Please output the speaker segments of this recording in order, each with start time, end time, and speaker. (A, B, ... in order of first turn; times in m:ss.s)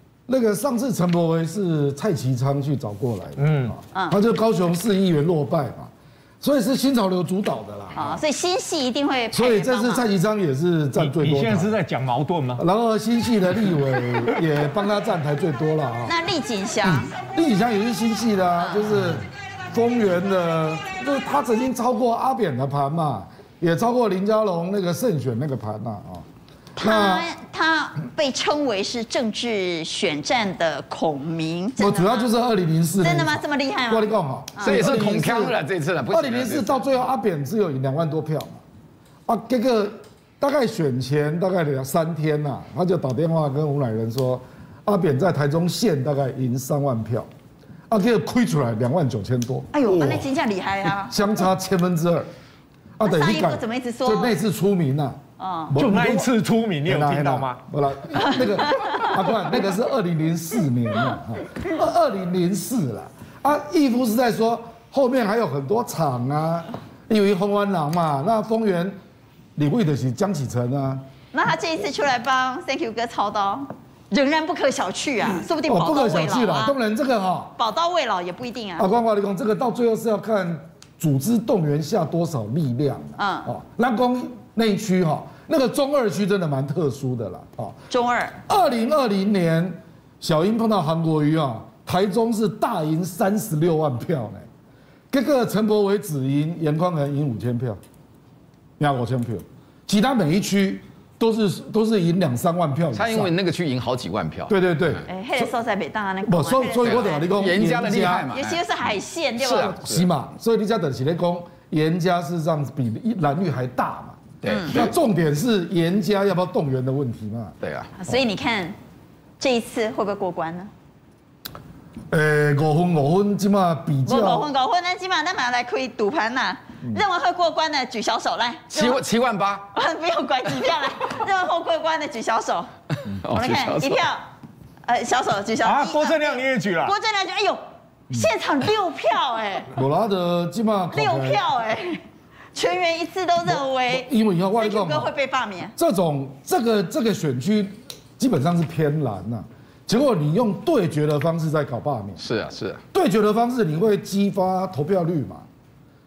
0:00.3-0:08.2 A
0:03.4-0:03.8 B
0:07.9-0:10.1 C
0:09.3-0:11.8 A
0:11.0-0:12.6 B
0:12.6-0:16.1 A
0:16.0-0:17.1 C
0:16.8-0:26.2 A
0:18.6-0:18.9 C
0:26.8-0:27.3 A
0:26.8-0:32.3 C
0:31.8-0:35.6 A
0:33.0-0:34.8 C
0:34.6-0:36.9 D
0:36.1-0:38.6 A
0:39.3-0:47.3 A
0:47.9-0:50.3 A
0:49.7-0:51.2 C
0:51.0-0:52.3 A
0:53.0-0:56.3 A
0:53.0-0:54.4 C
0:55.4-0:55.8 C
0:55.8-0:57.6 B
0:56.8-1:09.0 A
0:58.3-0:59.2 C
1:09.6-1:11.0 A
1:11.3-1:16.8 C
1:15.6-1:17.6 A
1:17.6-1:18.9 C
1:18.8-1:27.8 A
1:23.2-1:23.5 C
1:27.9-1:28.4 C
1:28.5-1:34.4 A
1:35.1-1:37.8 A
1:38.8-1:43.3 A
1:42.9-1:44.5 D
1:44.5-1:45.5 A
1:45.1-1:47.3 C
1:46.2-1:48.3 A
1:46.8-1:50.1 D
1:48.3-1:49.7 C
1:49.5-1:57.6 A
1:54.4-1:54.9 D
1:54.5-1:54.8 C
1:57.6-1:57.9 D
1:58.0-1:58.8 C
1:59.4-2:00.7 C
2:02.1-2:04.5 A
2:04.1-2:09.0 C
2:08.7-2:09.7 D
2:09.7-2:12.7 C
2:13.1-2:14.1 D
2:13.3-2:14.2 C
2:14.9-2:19.7 C
2:15.6-2:17.0 B
2:19.7-2:21.4 A
2:20.9-2:22.0 C
2:22.5-2:25.7 C
2:23.5-2:25.1 A
2:25.8-2:32.2 A
2:32.2-2:32.8 D
2:32.9-2:35.5 A